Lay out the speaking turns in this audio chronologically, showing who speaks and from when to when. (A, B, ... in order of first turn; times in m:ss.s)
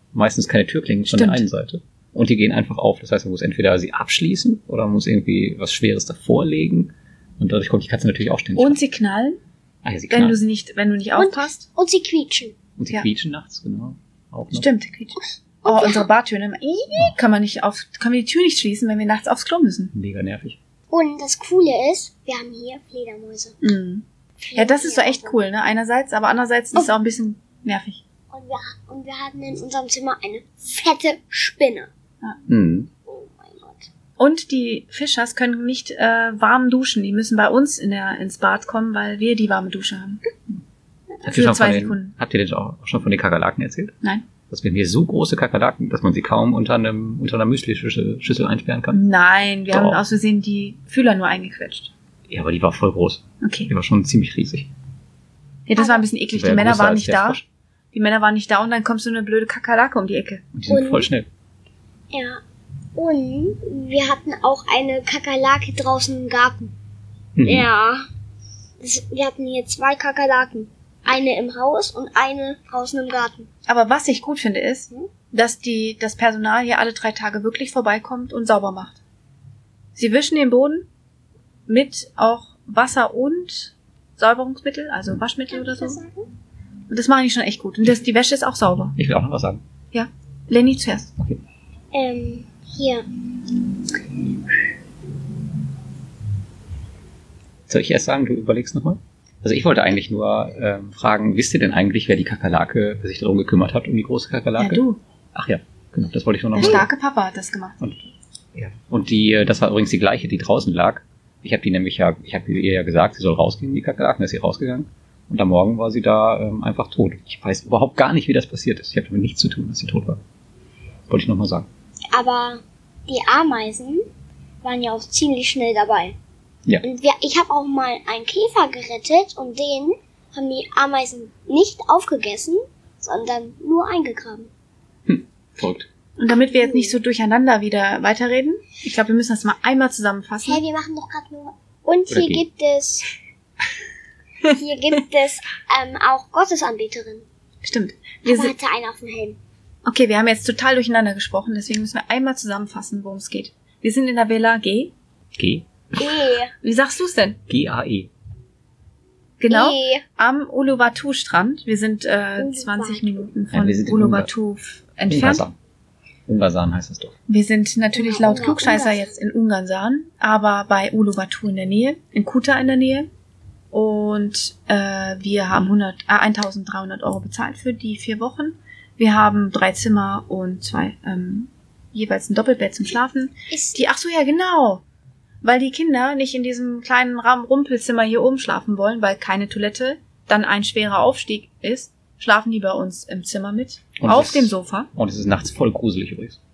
0:00.1-0:08.8 A
0:01.1-0:01.4 B
0:08.6-0:09.4 B
0:09.8-0:10.4 A
0:10.1-0:11.6 B
0:11.2-0:12.6 C
0:12.8-0:14.7 A
0:14.5-0:19.9 B
0:15.6-0:16.1 C
0:19.9-0:20.6 A
0:20.9-0:23.6 C
0:23.6-0:28.0 B
0:24.4-0:25.4 C
0:28.3-0:31.9 C
0:32.5-0:32.9 A
0:33.1-0:33.9 C
0:34.2-0:40.2 B
0:41.2-0:44.0 A
0:41.3-0:42.1 B
0:44.5-0:49.0 A
0:48.9-0:51.9 B
0:49.7-0:50.0 A
0:52.3-0:54.7 A
0:53.4-0:53.7 B
0:55.7-0:57.4 B
0:55.8-0:56.1 C
0:56.3-0:57.4 A
0:57.9-1:00.4 B
1:00.5-1:01.3 A
1:00.7-1:01.1 C
1:02.1-1:02.4 C
1:03.0-1:06.8 C
1:07.4-1:07.7 A
1:07.4-1:08.1 C
1:08.8-1:13.5 C
1:13.7-1:19.0 B
1:20.0-1:20.9 B
1:21.7-1:26.0 B
1:25.5-1:26.3 C
1:26.9-1:29.0 B
1:29.0-1:29.6 A
1:29.9-1:31.1 B
1:31.9-1:33.1 C
1:37.7-1:44.8 A
1:44.6-1:45.0 B
1:45.3-1:46.9 A
1:46.6-1:47.8 B
1:47.8-2:00.2 A
2:01.1-2:01.7 A
2:02.1-2:04.1 C
2:04.6-2:06.2 C
2:06.8-2:14.5 C
2:15.1-2:15.9 A
2:16.2-2:20.6 B
2:16.6-2:17.0 C
2:20.5-2:23.1 C
2:22.1-2:22.4 A
2:24.4-2:27.2 C
2:27.6-2:28.5 B
2:28.2-2:29.4 C
2:29.8-2:34.9 B
2:35.4-2:35.7 A
2:36.0-2:36.5 C
2:36.6-2:37.4 B
2:37.5-2:38.1 A
2:39.4-2:45.4 B
2:39.5-2:40.0 C
2:42.4-2:43.3 C
2:43.5-2:44.3 A
2:45.1-2:45.6 A
2:46.3-2:47.2 A
2:47.3-2:53.1 B
2:47.9-2:49.1 C
2:53.7-3:04.8 B
3:03.5-3:03.8 C
3:05.4-3:14.9 B
3:14.0-3:16.4 A